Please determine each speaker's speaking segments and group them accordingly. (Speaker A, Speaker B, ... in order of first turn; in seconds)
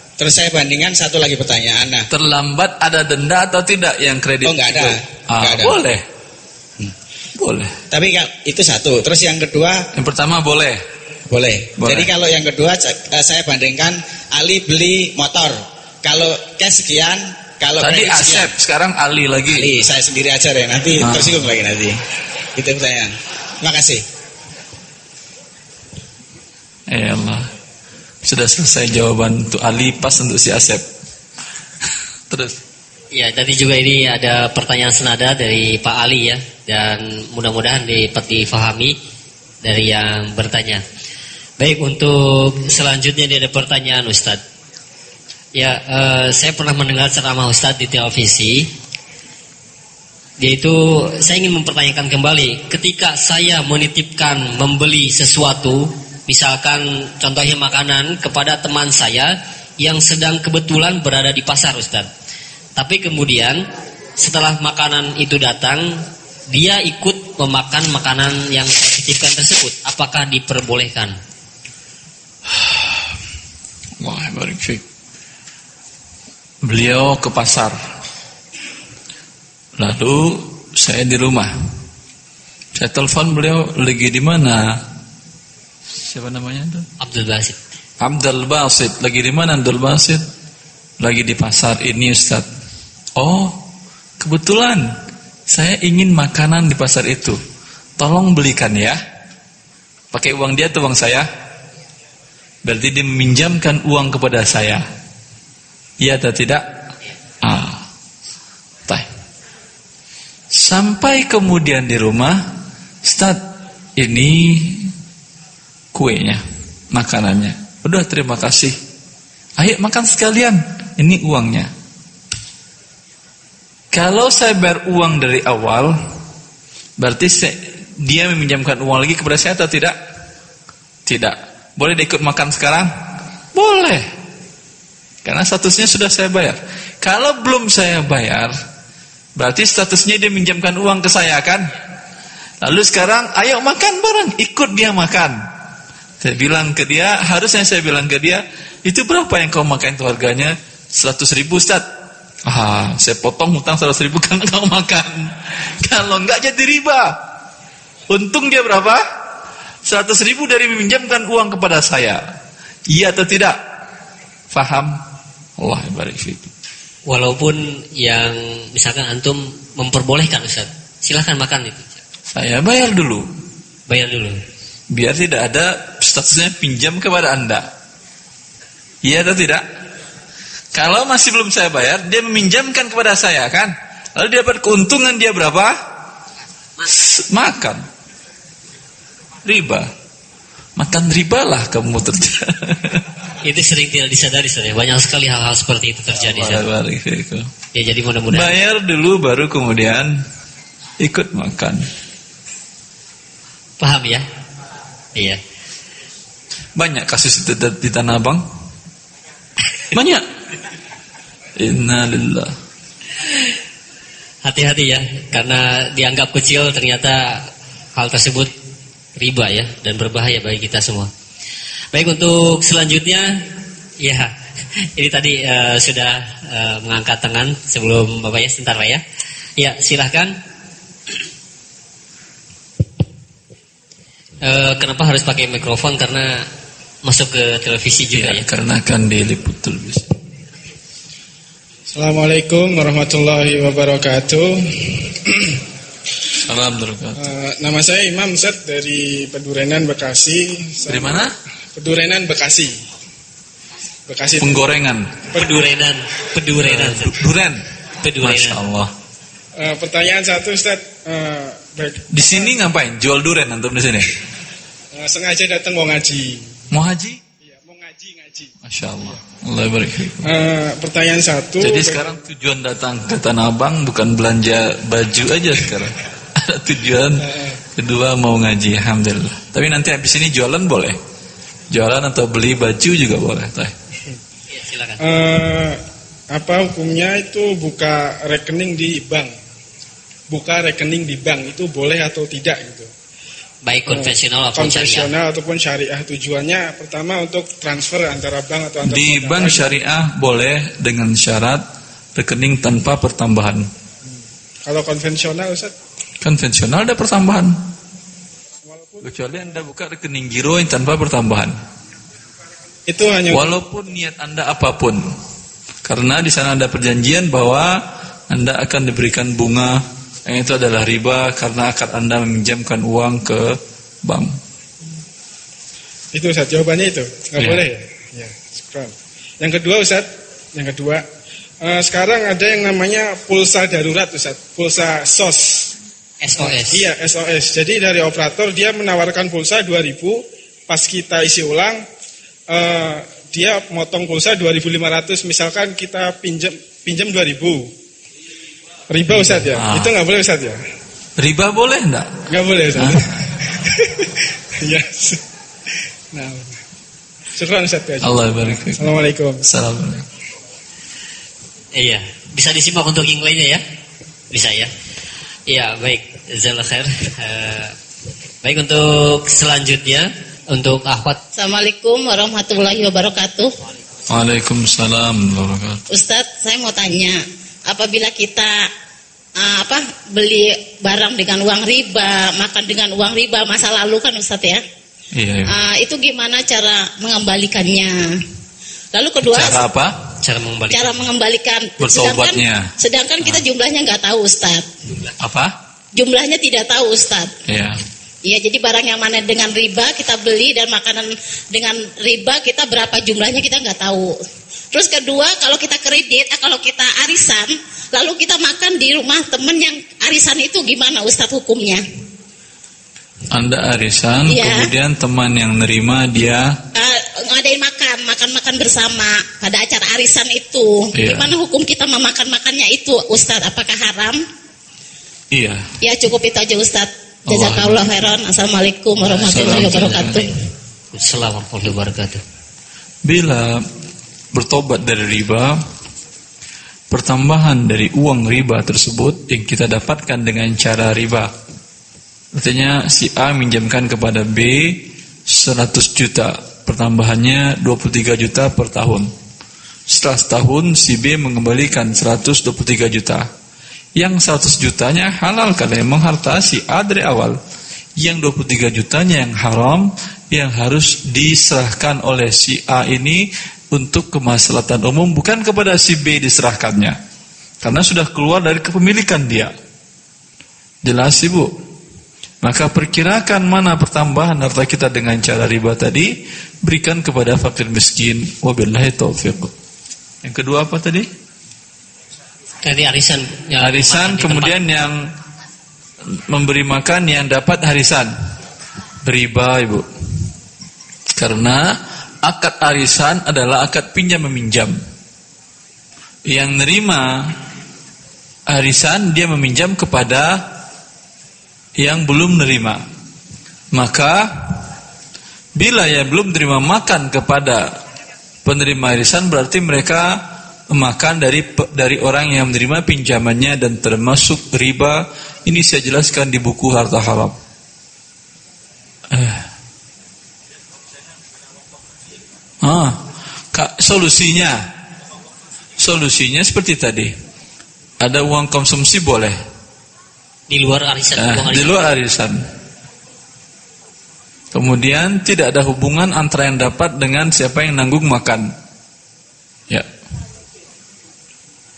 Speaker A: 0.2-2.1, 4.4-5.8, 7.9-9.9, 11.3-18.5, 19.5-22.0, 22.6-24.0
Speaker B: 2.1-6.0, 7.4-7.7, 9.9-10.8, 11.8-12.1, 17.8-19.8, 21.0-21.5, 26.9-27.5, 28.2-30.9, 32.3-32.6, 72.5-73.0, 74.0-74.8, 76.6-77.8, 79.8-81.5, 82.7-84.7, 86.0-86.9, 88.0-90.2, 91.0-92.5, 93.2-93.6, 94.2-94.9, 95.5-97.4, 98.0-99.0, 100.1-101.3, 102.6-104.8, 106.0-106.6, 107.4-107.8, 110.5-112.4, 113.0-113.4, 114.0-114.9, 115.9-118.8, 119.6-121.7, 123.9-126.0, 127.0-130.0, 131.1-132.9, 133.5-134.1, 135.2-138.5, 139.4-141.7, 142.6-145.4, 146.2-151.8, 152.4-157.2, 158.1-159.0, 159.9-162.2, 162.9-163.6, 164.5-164.9, 165.6-166.5, 172.3-173.2, 174.9-177.7, 179.0-179.6, 180.7-185.8, 186.9-187.8, 189.4-189.9, 190.8-193.0, 196.1-197.5, 198.3-200.1, 201.0-201.9, 206.8-208.4, 209.9-210.2, 211.6-212.5, 238.1-240.1, 246.4-247.2, 250.9-251.3, 254.4-255.2, 256.6-257.6, 258.2-258.9, 262.1-264.1, 266.7-267.2, 268.6-270.3, 271.6-281.0, 281.7-283.7, 298.9-301.6, 302.2-303.7, 306.2-307.6, 309.0-311.6, 313.3-315.0, 315.9-317.8, 318.3-324.4, 327.4-327.6, 349.1-349.9, 351.2-352.2, 352.7-353.2, 358.0-358.9, 359.4-360.1, 374.1-375.8, 385.1-385.5, 389.2-390.0, 391.8-392.7, 395.2-395.5, 397.5-397.8, 413.3-416.5, 420.9-421.3, 425.3-425.7, 427.3-427.8, 429.2-430.2, 433.1-433.6, 434.3-435.6, 436.9-441.3, 442.4-449.1, 449.9-453.3, 454.0-457.4, 458.0-467.0, 467.6-469.5, 470.9-471.5, 472.4-476.1, 476.6-479.5, 480.2-481.1, 483.6-485.0, 486.3-488.1, 489.0-489.9, 491.2-491.7, 492.2-494.8, 496.3-497.4, 498.5-500.4, 501.8-502.8, 503.7-504.6, 505.6-507.7, 508.4-510.2, 510.7-517.4, 519.1-519.5, 522.6-523.0, 523.5-524.6, 525.8-527.1, 528.0-529.4, 531.2-532.4, 534.5-538.5
Speaker C: 33.1-39.0, 39.6-40.8, 41.6-44.4, 45.5-48.7, 50.4-62.1, 62.8-63.6, 64.2-71.2, 87.0-87.6, 167.1-171.9, 173.9-174.4, 193.4-196.6, 197.7-198.5, 203.8-204.2, 214.4-218.5, 219.2-221.1, 221.9-223.3, 224.0-224.3, 224.9-229.0, 229.6-230.4, 234.4-236.4, 237.0-238.4, 255.3-257.2, 258.0-258.6, 284.5-285.0, 293.6-295.1, 336.2-336.8, 361.7-363.6, 364.3-364.7, 365.5-367.7, 368.4-371.2, 390.2-391.0, 429.2-430.4, 430.9-432.2, 482.6-484.6, 530.5-531.8
Speaker D: 241.9-245.6, 247.2-252.7, 254.1-254.7, 259.6-262.5, 264.9-266.5, 267.4-268.5, 270.2-272.1, 277.2-277.6, 285.0-285.8, 286.3-289.3, 290.3-292.9, 293.9-299.7, 304.6-305.7, 308.6-309.6, 312.9-313.5, 326.1-331.0, 331.6-335.7, 336.4-341.8, 342.5-347.7, 348.9-350.6, 352.3-355.2, 356.1-356.5, 357.4-359.4
Speaker E: 371.4-373.5, 375.9-378.6, 379.4-384.6, 385.5-388.1, 388.9-389.6, 390.7-394.7, 395.9-397.3, 398.2-404.1, 404.7-411.8, 414.2-414.7, 416.7-424.2, 425.8-430.3